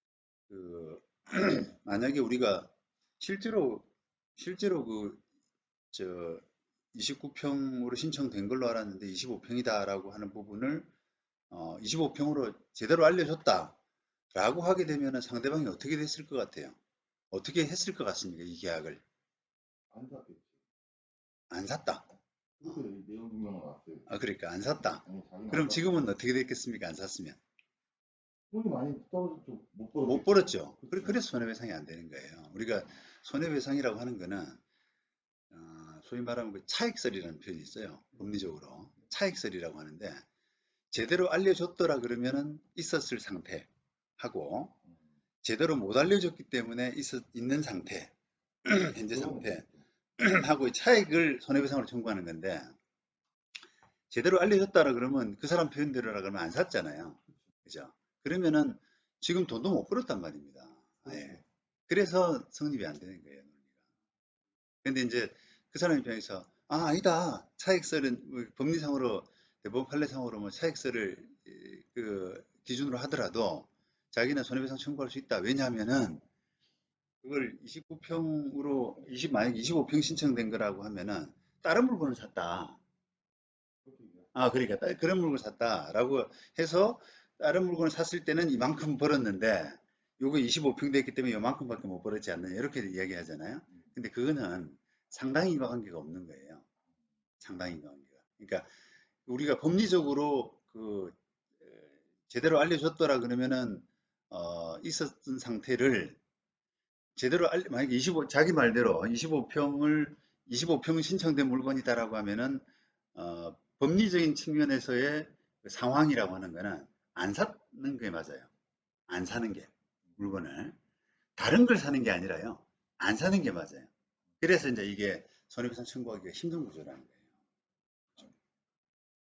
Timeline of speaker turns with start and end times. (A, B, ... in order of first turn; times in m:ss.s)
0:00.5-0:05.2 A
0:05.9-0:10.9 A
0:11.5-0:13.8 A
0:14.3-0:16.8 A
0:17.3-0:19.0 A
0:19.9-0:20.5 B
0:21.5-0:22.1 A
0:22.6-0:24.1 B
0:24.1-0:27.4 A
0:25.0-0:26.0 B
0:28.5-0:31.1 B
0:30.0-0:34.6 A
0:35.5-0:40.3 A
0:40.9-0:43.7 A
0:44.2-0:44.8 A
0:45.4-0:48.1 A
0:48.6-0:52.7 A
0:49.1-0:49.7 B
0:54.1-1:03.6 A
1:04.8-1:16.2 A
1:17.2-1:22.8 A
1:23.8-1:24.3 B
1:24.3-1:36.6 A
1:37.4-1:38.7 A
1:39.3-1:46.2 A
1:47.2-1:58.5 A
1:59.1-2:00.8 A
2:01.4-2:07.2 A